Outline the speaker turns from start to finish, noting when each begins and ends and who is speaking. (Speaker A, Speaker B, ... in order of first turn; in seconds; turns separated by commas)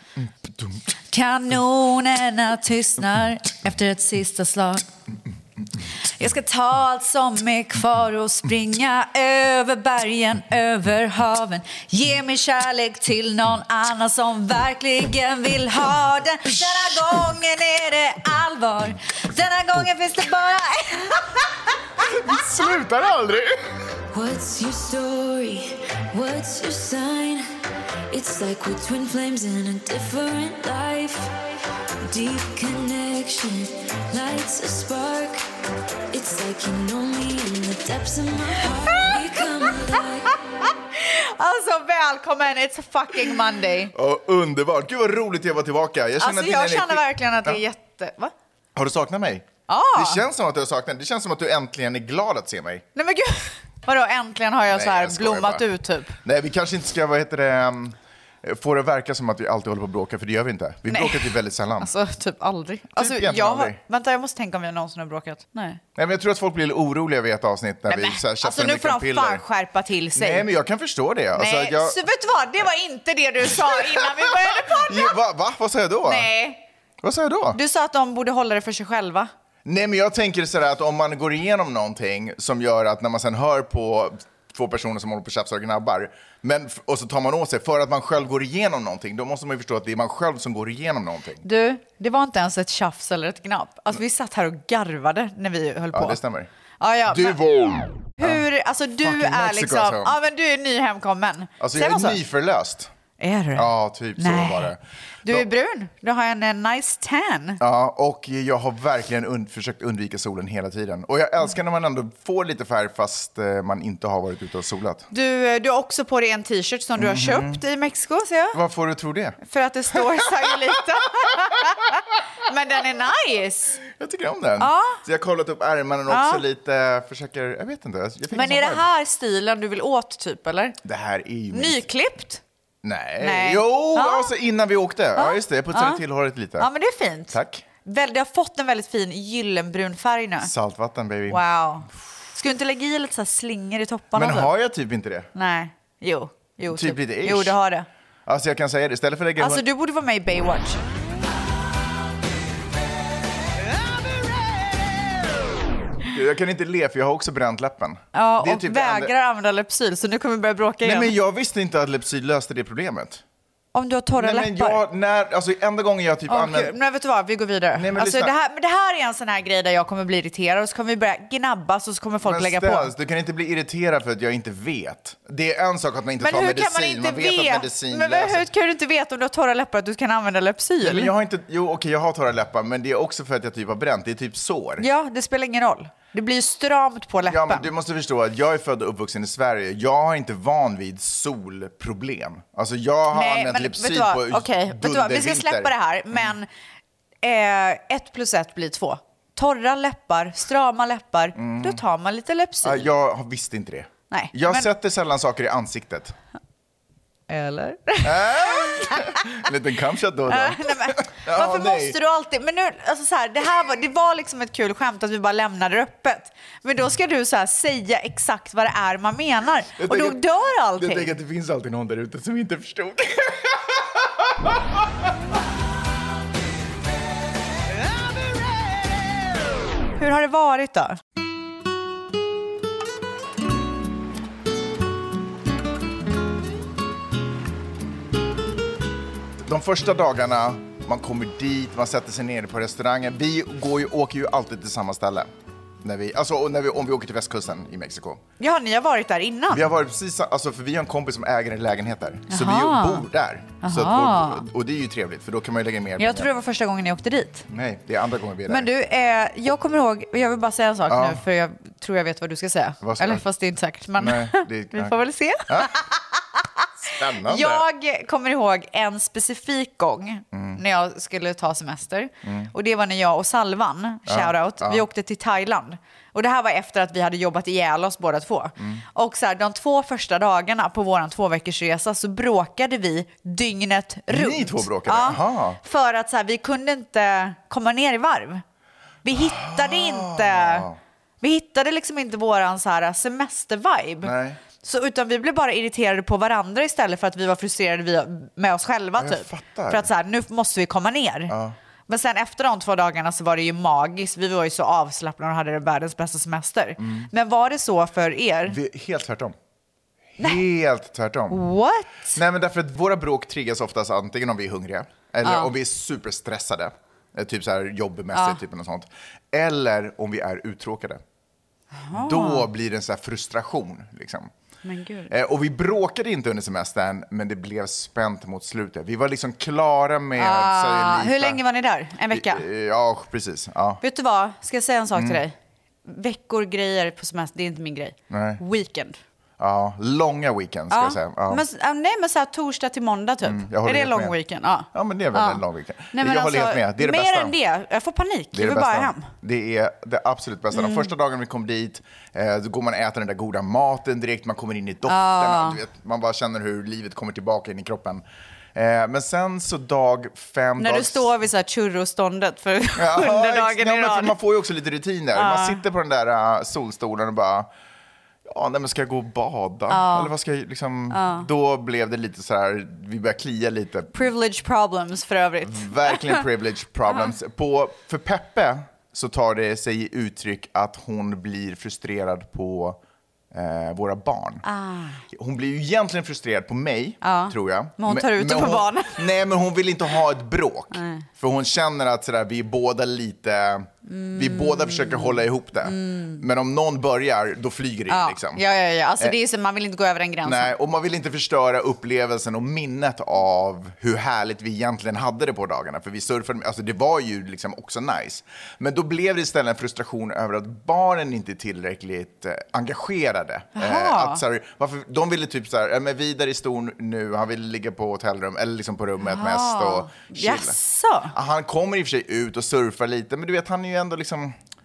Speaker A: 0.2-0.8, Speaker B: 1.1-4.9, Speaker B: 6.2-21.4, Speaker A: 22.0-23.5, Speaker C: 24.1-27.5, Speaker C: 28.1-31.3, Speaker C: 32.1-35.4, Speaker C: 36.1-40.4, Speaker B: 40.9-43.9, Speaker A: 43.9-47.6, Speaker B: 46.2-48.3, Speaker A: 48.8-52.9, Speaker B: 49.7-50.2, Speaker B: 53.0-56.2, Speaker A: 54.7-55.7, Speaker A: 56.2-61.9, Speaker B: 60.9-65.8, Speaker A: 62.9-63.8, Speaker A: 66.0-69.4, Speaker B: 67.9-70.5, Speaker A: 70.2-72.0, Speaker B: 71.4-75.2, Speaker A: 73.5-76.3, Speaker B: 76.0-76.6, Speaker A: 77.0-77.6, Speaker B: 77.5-79.3, Speaker A: 79.7-91.5, Speaker B: 91.4-96.2, Speaker A: 95.9-96.5, Speaker B: 96.8-97.4, Speaker A: 97.1-98.5, Speaker B: 98.2-102.2, Speaker A: 99.0-100.2, Speaker A: 101.6-102.9, Speaker B: 103.2-104.7, Speaker A: 103.5-105.5, Speaker B: 105.2-107.6, Speaker A: 107.6-115.1, Speaker B: 115.1-118.6, Speaker A: 117.0-117.6, Speaker A: 118.5-119.4, Speaker B: 119.4-123.8, Speaker A: 119.9-120.8, Speaker A: 121.6-121.9, Speaker A: 123.9-128.8, Speaker B: 124.6-125.0, Speaker B: 126.1-126.4, Speaker B: 128.3-130.8, Speaker A: 130.8-131.9, Speaker B: 131.5-132.4, Speaker A: 132.8-136.7, Speaker B: 133.2-134.3, Speaker B: 135.2-136.0, Speaker B: 136.6-140.5, Speaker A: 137.3-137.7, Speaker A: 140.4-141.4, Speaker B: 141.3-144.5, Speaker A: 144.1-145.3, Speaker B: 145.3-147.9, Speaker A: 146.7-147.6, Speaker A: 148.3-149.6, Speaker B: 149.4-150.8, Speaker A: 156.1-159.1, Speaker B: 158.1-161.1, Speaker A: 160.8-163.2, Speaker B: 163.7-164.8, Speaker A: 164.2-166.8, Speaker B: 166.3-172.9, Speaker A: 167.8-168.3, Speaker A: 172.2-178.5, Speaker B: 176.2-181.1, Speaker A: 180.8-184.9, Speaker B: 184.8-187.7, Speaker A: 187.2-196.3, Speaker B: 193.1-196.5, Speaker B: 197.2-202.9, Speaker A: 201.4-201.8, Speaker A: 202.6-206.2, Speaker B: 204.1-204.7, Speaker B: 207.3-209.5, Speaker A: 208.0-212.0, Speaker B: 210.3-221.1, Speaker A: 219.8-220.2, Speaker A: 220.8-224.8, Speaker B: 230.0-231.0, Speaker A: 239.4-245.3, Speaker A: 245.8-248.2, Speaker B: 248.4-249.7, Speaker A: 249.5-256.3, Speaker B: 252.3-253.1, Speaker B: 253.6-254.4, Speaker B: 256.0-257.5, Speaker A: 257.5-258.7, Speaker B: 258.5-288.4, Speaker A: 260.9-261.2, Speaker A: 262.8-263.2, Speaker A: 264.0-265.7, Speaker A: 266.8-267.6, Speaker A: 270.3-270.6, Speaker A: 272.2-272.5, Speaker A: 274.1-274.8, Speaker A: 284.1-285.6, Speaker B: 289.0-290.7, Speaker A: 289.1-290.8, Speaker B: 291.2-301.4, Speaker A: 294.0-294.4, Speaker A: 299.0-299.9, Speaker A: 301.3-301.6, Speaker B: 301.9-308.6, Speaker A: 306.8-307.1, Speaker A: 308.5-309.4, Speaker A: 310.1-311.4, Speaker B: 311.3-312.2, Speaker A: 312.1-321.0, Speaker B: 315.2-315.5, Speaker B: 318.1-318.4, Speaker B: 321.8-322.5, Speaker A: 321.9-324.3, Speaker B: 324.6-325.1, Speaker A: 325.1-331.4, Speaker B: 330.2-332.4, Speaker A: 332.1-333.8, Speaker B: 333.8-335.3, Speaker A: 334.9-335.2, Speaker B: 335.9-339.0, Speaker A: 338.1-338.4, Speaker A: 339.4-341.4, Speaker B: 340.7-345.4, Speaker A: 343.2-344.1, Speaker A: 344.7-347.3, Speaker B: 345.9-349.1, Speaker A: 348.3-361.1, Speaker B: 350.5-350.9, Speaker B: 354.9-355.6, Speaker B: 360.6-364.1, Speaker A: 362.8-367.5, Speaker B: 365.1-365.6, Speaker A: 368.2-373.9, Speaker B: 369.7-370.1, Speaker B: 370.9-371.3, Speaker B: 373.9-376.2, Speaker A: 375.4-382.8, Speaker A: 383.3-384.4, Speaker B: 384.4-385.0, Speaker A: 385.1-398.4, Speaker B: 387.0-389.1, Speaker B: 390.7-391.1, Speaker B: 393.9-396.2, Speaker B: 397.9-400.5, Speaker A: 400.2-420.6, Speaker B: 413.6-414.2, Speaker B: 419.0-421.1, Speaker A: 421.1-424.4